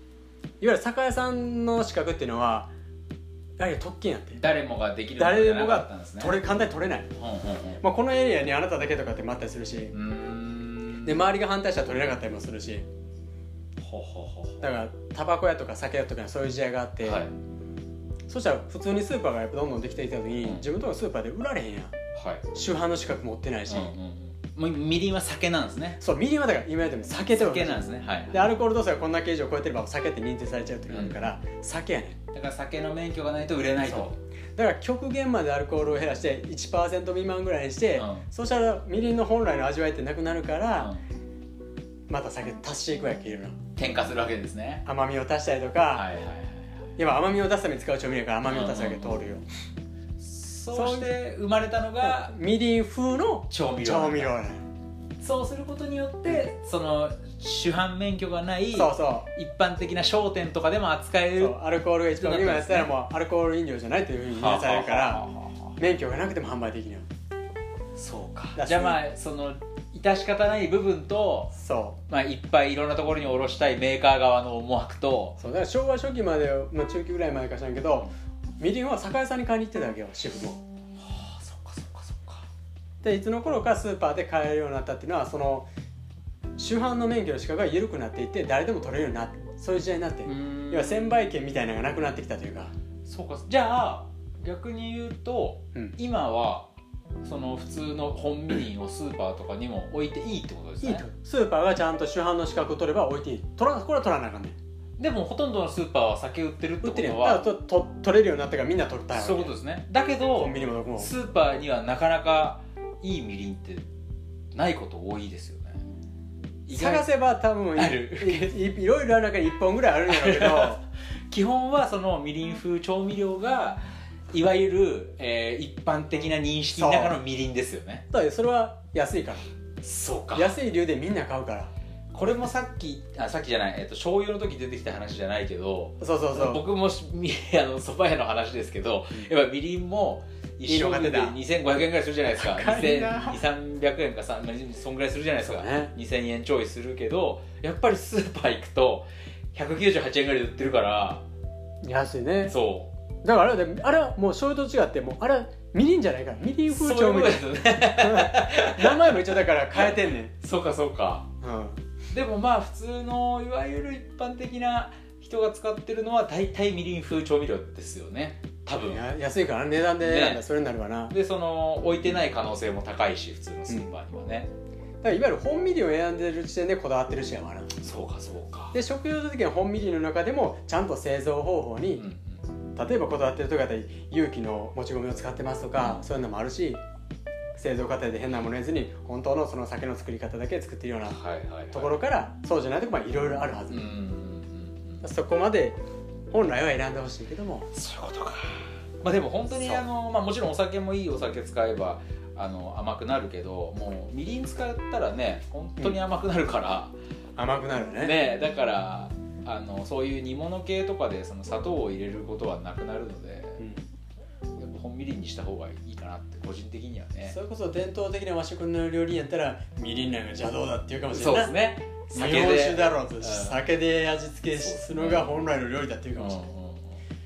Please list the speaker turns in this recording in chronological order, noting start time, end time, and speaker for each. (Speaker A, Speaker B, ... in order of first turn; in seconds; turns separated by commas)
Speaker A: 0.6-2.7, Speaker A: 3.6-4.4, Speaker B: 4.3-6.4, Speaker A: 5.2-7.1, Speaker B: 7.2-7.8, Speaker A: 7.8-9.9, Speaker B: 9.9-11.2, Speaker A: 11.0-12.9, Speaker B: 13.8-14.7, Speaker A: 14.6-17.3, Speaker B: 17.0-17.3, Speaker A: 18.3-21.9, Speaker B: 22.2-22.4, Speaker A: 22.5-23.9, Speaker B: 23.7-26.0, Speaker A: 26.0-32.2, Speaker B: 27.3-28.5, Speaker B: 30.9-31.3, Speaker B: 32.3-34.1, Speaker A: 33.8-40.9, Speaker B: 38.0-38.2, Speaker B: 40.8-41.0, Speaker A: 42.1-43.6, Speaker B: 43.8-44.8, Speaker A: 44.9-46.1, Speaker B: 45.9-46.9, Speaker A: 47.0-49.4, Speaker B: 48.5-49.2, Speaker B: 50.2-52.3, Speaker A: 50.7-51.1, Speaker A: 52.0-54.7, Speaker B: 53.5-54.3, Speaker B: 55.2-61.6, Speaker A: 58.7-59.3, Speaker A: 61.3-65.2, Speaker B: 62.2-62.9, Speaker B: 64.3-65.8, Speaker A: 65.8-67.1, Speaker B: 68.0-71.5, Speaker A: 68.6-69.0, Speaker A: 71.6-72.0, Speaker B: 72.1-75.4, Speaker A: 75.4-80.6, Speaker B: 81.0-82.5, Speaker A: 83.0-85.7, Speaker A: 86.6-92.7, Speaker B: 90.2-91.3, Speaker B: 93.0-96.7, Speaker B: 97.2-101.0, Speaker A: 100.8-104.6, Speaker B: 105.0-107.5, Speaker A: 106.8-109.6, Speaker B: 109.1-113.8, Speaker A: 110.3-111.1, Speaker B: 114.5-115.8, Speaker B: 116.7-117.1, Speaker A: 116.7-120.8, Speaker B: 117.8-118.5, Speaker B: 120.1-128.1, Speaker A: 126.7-127.2, Speaker A: 128.1-129.5, Speaker B: 129.8-130.6, Speaker A: 130.3-131.7, Speaker B: 132.1-151.3, Speaker A: 136.0-136.6, Speaker A: 140.7-141.4, Speaker A: 142.3-143.4, Speaker A: 145.4-145.9, Speaker A: 151.8-152.6, Speaker B: 152.5-152.9, Speaker A: 153.2-160.3, Speaker B: 156.7-161.3, Speaker A: 161.4-161.8, Speaker B: 162.1-169.1, Speaker A: 168.8-171.1, Speaker B: 170.0-170.4, Speaker B: 171.1-174.5, Speaker A: 173.7-174.0, Speaker A: 175.0-177.7, Speaker B: 177.8-178.8, Speaker A: 178.7-182.1, Speaker B: 181.9-182.4, Speaker A: 182.8-186.8, Speaker B: 185.8-186.1, Speaker A: 187.6-191.2, Speaker B: 191.1-192.0, Speaker A: 191.7-193.9, Speaker B: 193.7-195.0, Speaker A: 195.0-195.8, Speaker A: 196.3-197.7, Speaker B: 197.7-206.9, Speaker A: 199.5-199.8, Speaker A: 207.4-208.2, Speaker B: 208.0-213.6, Speaker A: 213.6-213.8, Speaker B: 214.6-217.4, Speaker A: 217.3-221.6, Speaker B: 221.1-223.7, Speaker A: 222.1-226.5, Speaker B: 224.5-225.3, Speaker B: 226.2-227.0